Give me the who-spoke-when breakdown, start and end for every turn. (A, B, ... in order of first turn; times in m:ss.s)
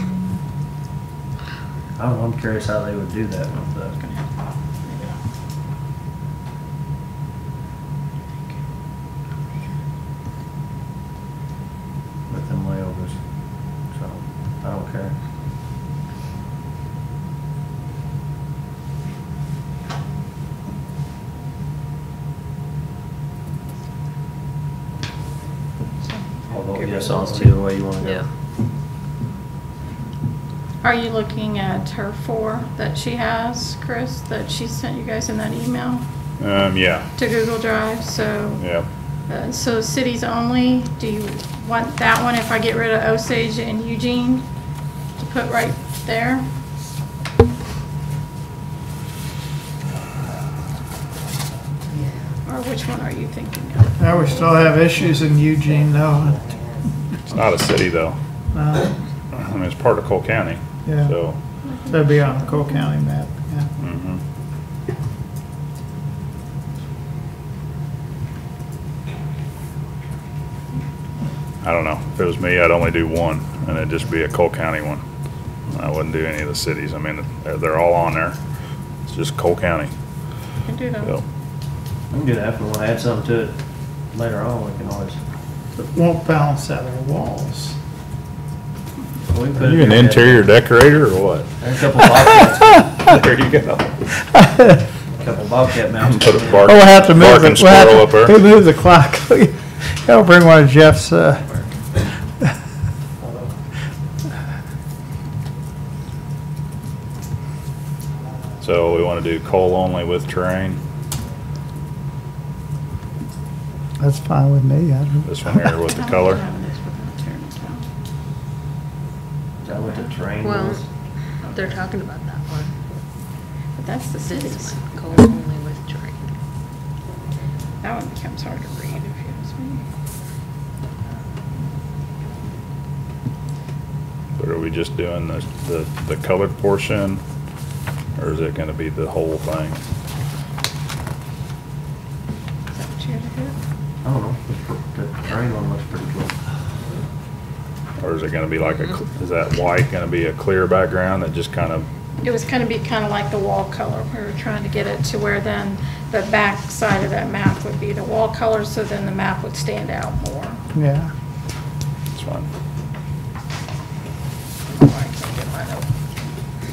0:02.0-0:04.0 A
0:04.0-0:04.2 B
0:12.3-0:13.2 A
0:13.9-0:15.1 A
0:26.0-0:27.6 B
0:26.5-0:28.2 A
0:30.8-0:36.0 B
0:36.4-0:37.1 C
0:37.2-0:38.6 B
0:38.6-0:38.9 C
0:39.3-0:44.5 B
0:45.2-0:46.4 B
0:52.5-0:54.4 B
0:54.0-0:56.4 D
0:57.3-0:58.2 C
0:58.5-0:58.9 D
0:59.3-1:01.4 C
1:00.9-1:01.1 D
1:01.6-1:02.9 B
1:01.9-1:03.7 D
1:03.8-1:04.2 C
1:11.6-1:15.0 C
1:15.7-1:18.4 C
1:19.1-1:19.9 C
1:20.6-1:21.2 B
1:22.1-1:23.6 A
1:24.1-1:25.2 A
1:25.8-1:27.8 D
1:29.3-1:30.5 A
1:29.6-1:31.5 C
1:31.6-1:32.9 A
1:32.8-1:33.9 C
1:34.2-1:34.8 D
1:35.2-1:37.1 A
1:36.0-1:38.4 C
1:36.6-1:41.5 D
1:48.6-1:50.8 C
1:54.0-1:55.4 D
1:55.2-1:56.4 C
1:55.9-1:57.8 B
1:59.6-2:00.8 A
2:00.4-2:00.8 E
2:01.4-2:01.8 B
2:01.5-2:02.7 E
2:03.8-2:04.8 B
2:04.3-2:06.3 E
2:07.8-2:09.8 B
2:14.4-2:17.2 C
2:18.2-2:19.8 C
2:22.7-2:23.6 B
2:24.0-2:26.3 A
2:28.0-2:31.9 C
2:32.2-2:40.6 B
2:40.8-2:41.1 D
2:42.1-2:42.5 C
2:44.7-2:45.9 B